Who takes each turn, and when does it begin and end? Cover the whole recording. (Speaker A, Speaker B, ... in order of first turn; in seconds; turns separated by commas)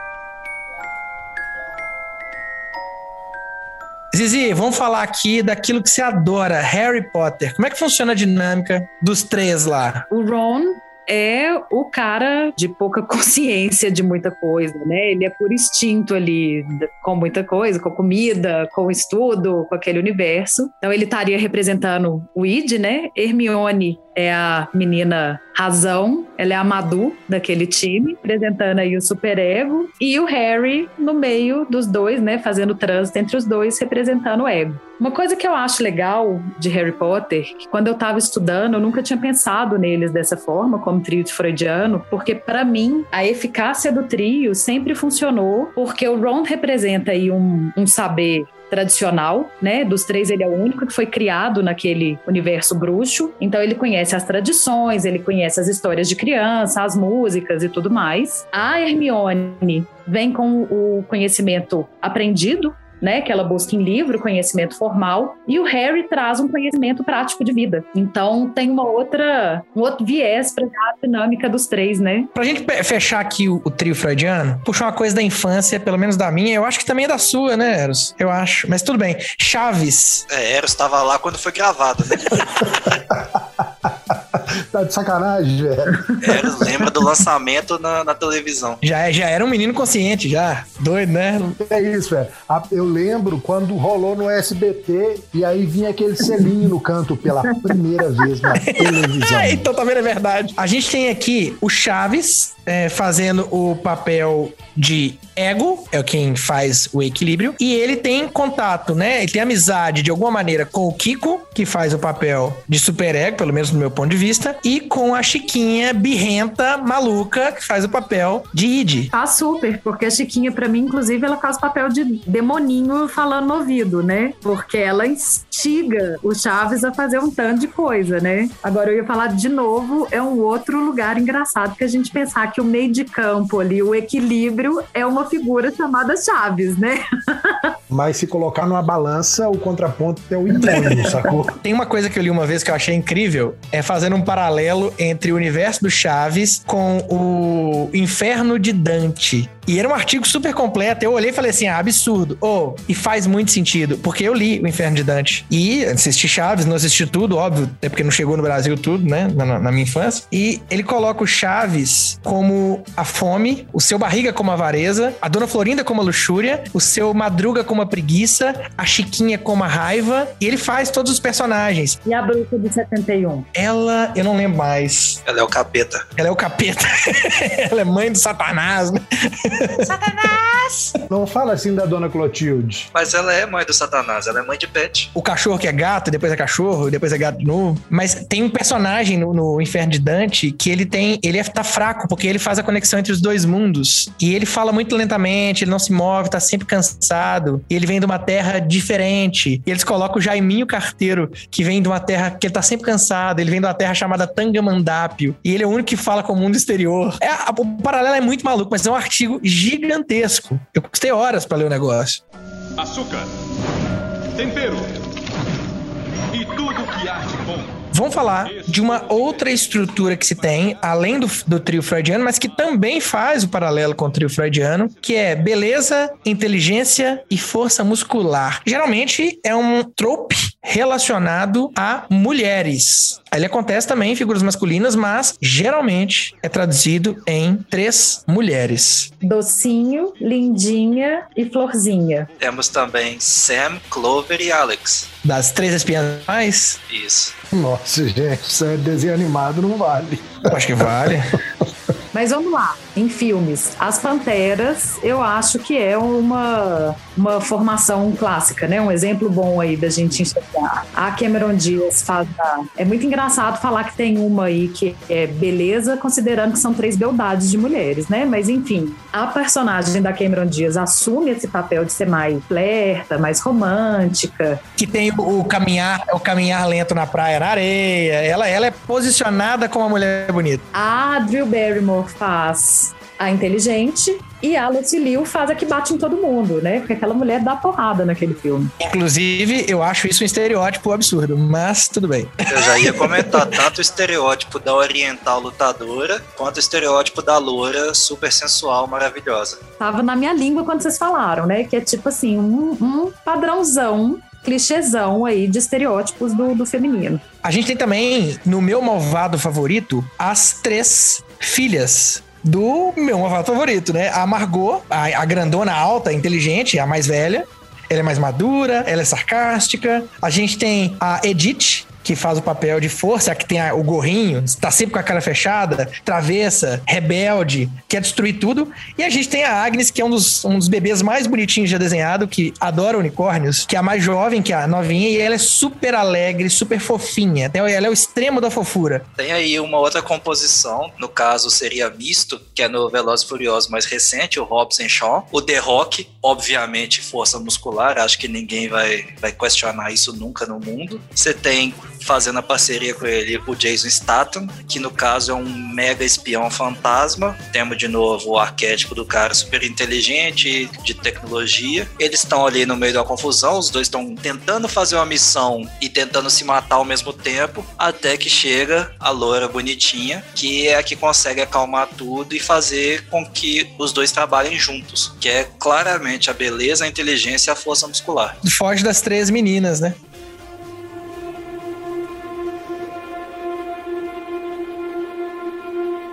Speaker A: 4.1-10.1, Speaker B: 10.1-72.3, Speaker A: 72.3-80.2, Speaker C: 80.3-82.7, Speaker D: 82.8-86.0, Speaker B: 86.1-86.7, Speaker C: 86.2-88.8, Speaker A: 88.8-91.6, Speaker D: 91.6-99.7, Speaker B: 98.2-98.5, Speaker A: 98.7-119.1, Speaker B: 119.1-137.7, Speaker D: 137.9-141.6, Speaker A: 140.7-172.0, Speaker B: 172.1-173.5, Speaker A: 173.5-175.2, Speaker C: 175.3-176.1, Speaker A: 176.2-180.9, Speaker D: 181.1-182.9, Speaker C: 182.9-185.1, Speaker A: 185.1-212.2, Speaker E: 212.8-213.3, Speaker E: 214.4-215.0, Speaker E: 216.3-217.8, Speaker A: 217.9-239.1, Speaker E: 218.6-219.0, Speaker B: 239.2-242.3, Speaker C: 242.4-245.1, Speaker A: 245.2-246.8, Speaker C: 246.9-247.3, Speaker D: 247.5-251.2, Speaker A: 250.5-251.4, Speaker B: 252.1-274.6, Speaker A: 274.8-280.6, Speaker B: 280.7-288.7, Speaker A: 288.8-293.6, Speaker C: 292.5-299.6, Speaker B: 299.8-307.2, Speaker A: 307.4-339.1, Speaker C: 339.2-378.4, Speaker A: 378.4-380.0